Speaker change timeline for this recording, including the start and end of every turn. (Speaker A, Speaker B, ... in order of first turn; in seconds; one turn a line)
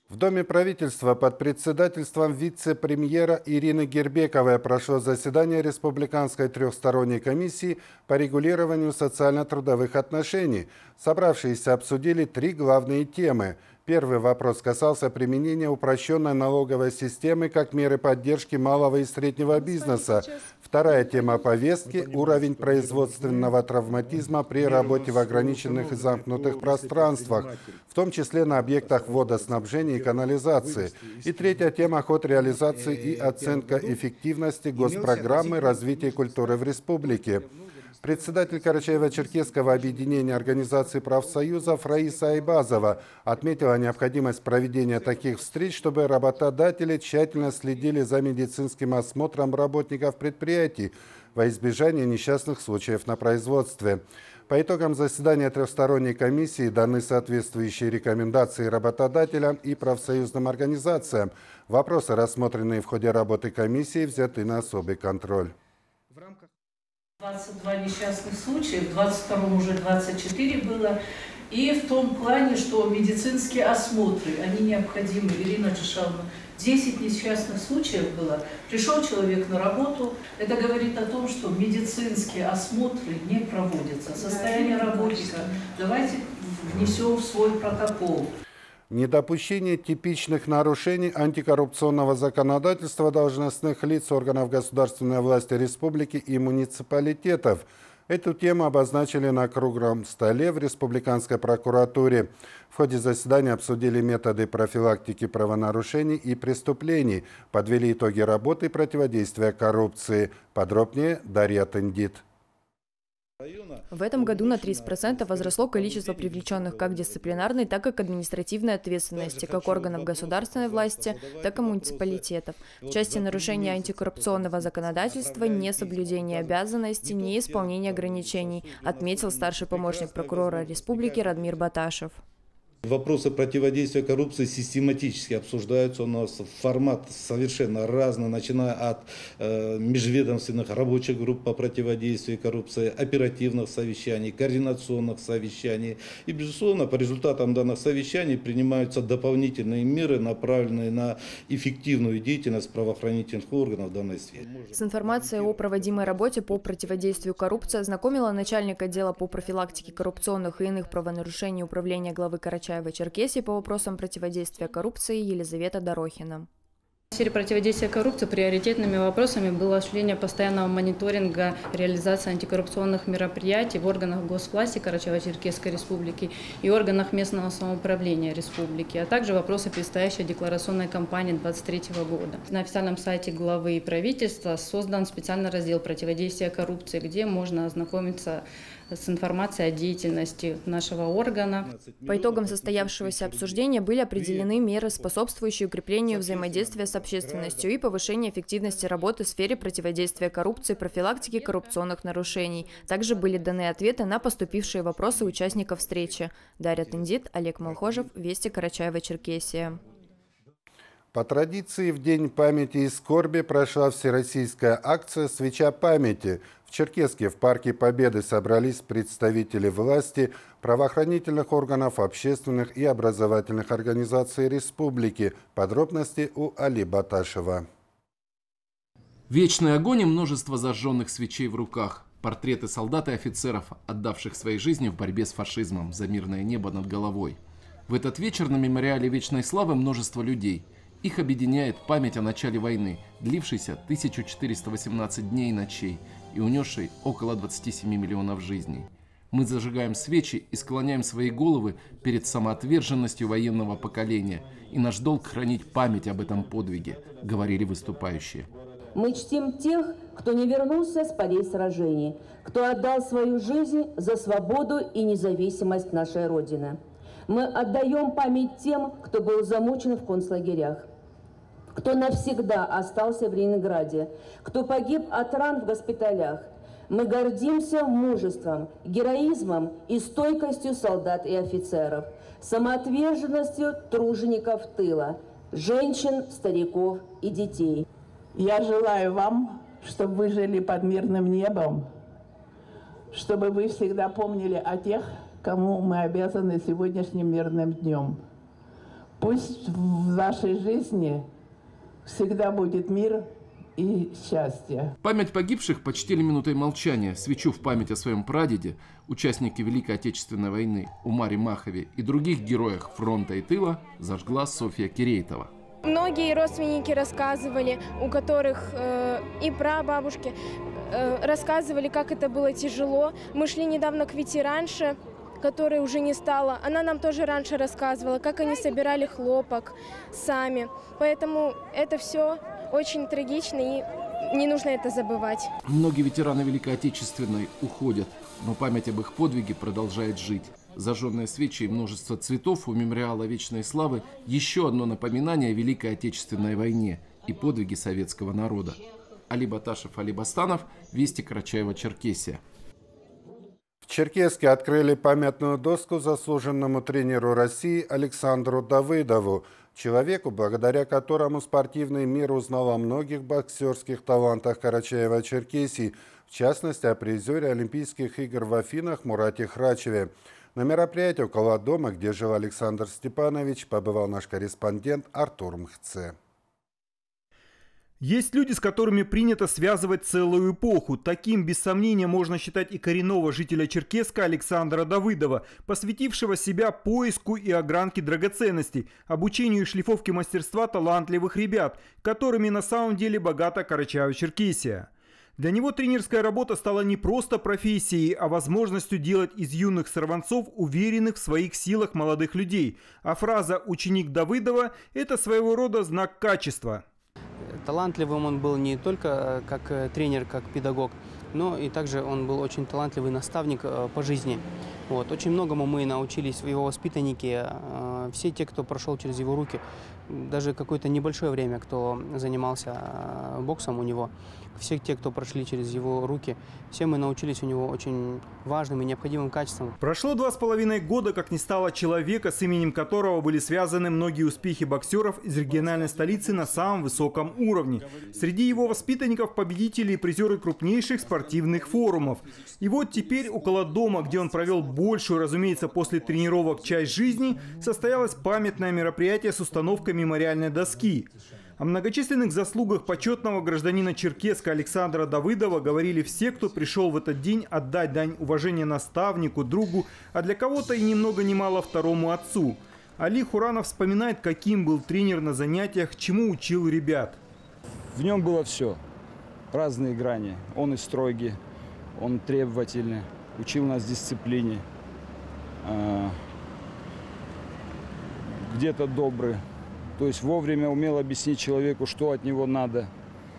Speaker A: 0.1-37.5
Speaker A: 38.0-65.5
Speaker B: 67.2-71.0
Speaker B: 71.5-88.3
Speaker A: 88.9-112.2
Speaker C: 113.4-117.7
Speaker D: 113.9-132.2
Speaker C: 119.1-131.7
Speaker C: 132.8-156.7
Speaker D: 154.7-166.5
Speaker E: 167.1-191.7
Speaker C: 191.6-195.2
Speaker D: 192.1-209.8
Speaker C: 196.0-197.8
Speaker A: 211.1-227.7
Speaker F: 229.3-258.5
Speaker G: 258.9-270.9
Speaker G: 271.7-287.8
Speaker H: 288.4-291.9
Speaker H: 293.1-298.2
Speaker H: 299.2-301.2
Speaker H: 302.1-303.3
Speaker H: 303.8-304.9
Speaker F: 305.0-315.5
Speaker I: 315.9-320.4
Speaker I: 320.9-335.5
Speaker F: 335.6-348.8
Speaker F: 349.3-352.4
Speaker A: 353.9-376.1
Speaker J: 378.0-406.8
Speaker K: 407.4-429.8
Speaker J: 429.8-467.2
Speaker L: 467.9-468.8
Speaker L: 469.5-471.4
Speaker L: 472.0-474.6
Speaker L: 475.6-476.2
Speaker L: 478.4-479.4
Speaker L: 480.0-482.9